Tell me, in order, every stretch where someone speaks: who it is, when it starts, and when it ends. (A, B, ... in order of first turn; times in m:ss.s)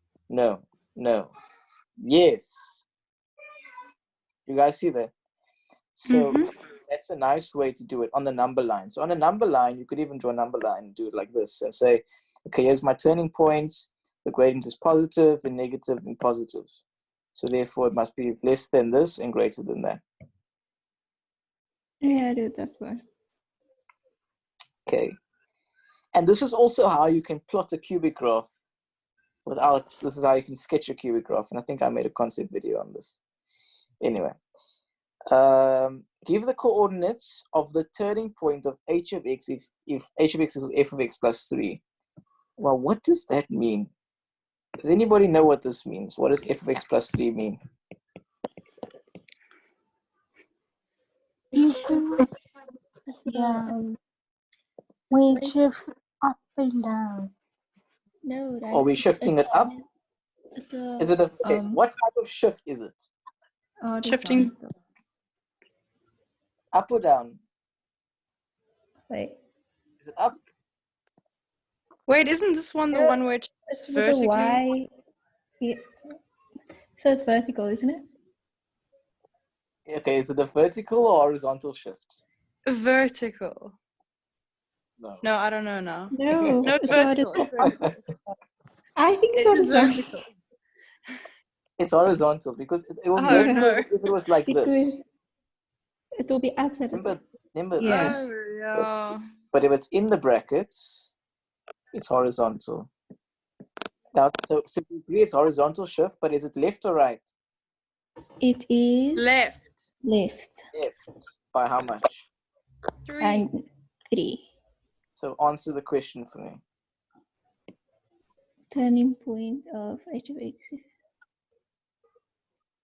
0:00.3-0:01.3 A
0:02.0-0:02.8 A
0:04.4-0:05.1 A
0:05.9-0:16.7 A
0:06.1-0:06.5 B
0:17.3-0:20.0 A
0:22.0-0:23.0 C
0:24.8-0:25.1 A
0:26.1-0:28.5 A
0:29.4-0:33.2 A
0:34.0-0:34.4 A
0:35.3-0:41.8 A
0:42.6-0:43.9 A
0:44.8-0:47.6 A
0:51.5-0:52.4 C
0:51.5-0:52.3 D
0:53.1-0:54.0 C
0:53.3-0:53.7 D
0:55.1-0:57.3 D
0:58.2-0:59.9 C
0:58.7-0:59.7 A
1:00.5-1:01.8 C
1:01.0-1:03.1 A
1:03.8-1:04.7 C
1:04.0-1:04.5 B
1:06.7-1:07.4 A
1:09.1-1:09.4 C
1:10.0-1:10.4 A
1:12.1-1:14.6 B
1:13.7-1:14.9 C
1:17.0-1:18.1 C
1:19.9-1:22.2 A
1:22.7-1:23.8 B
1:25.0-1:25.2 A
1:25.2-1:28.0 B
1:26.1-1:27.7 C
1:26.4-1:27.0 A
1:29.0-1:30.1 C
1:29.3-1:30.3 B
1:31.8-1:35.0 A
1:33.1-1:33.9 B
1:33.3-1:33.7 C
1:34.4-1:35.0 C
1:36.2-1:37.2 C
1:36.9-1:38.2 A
1:37.8-1:38.3 C
1:37.8-1:39.2 B
1:39.5-1:41.1 A
1:41.9-1:42.9 A
1:44.1-1:47.3 A
1:48.4-1:49.3 C
1:49.2-1:49.7 B
1:50.0-1:50.5 C
1:50.7-1:52.3 A
1:53.1-1:53.4 B
1:53.2-1:54.5 C
1:55.1-1:56.6 A
1:58.7-2:00.9 C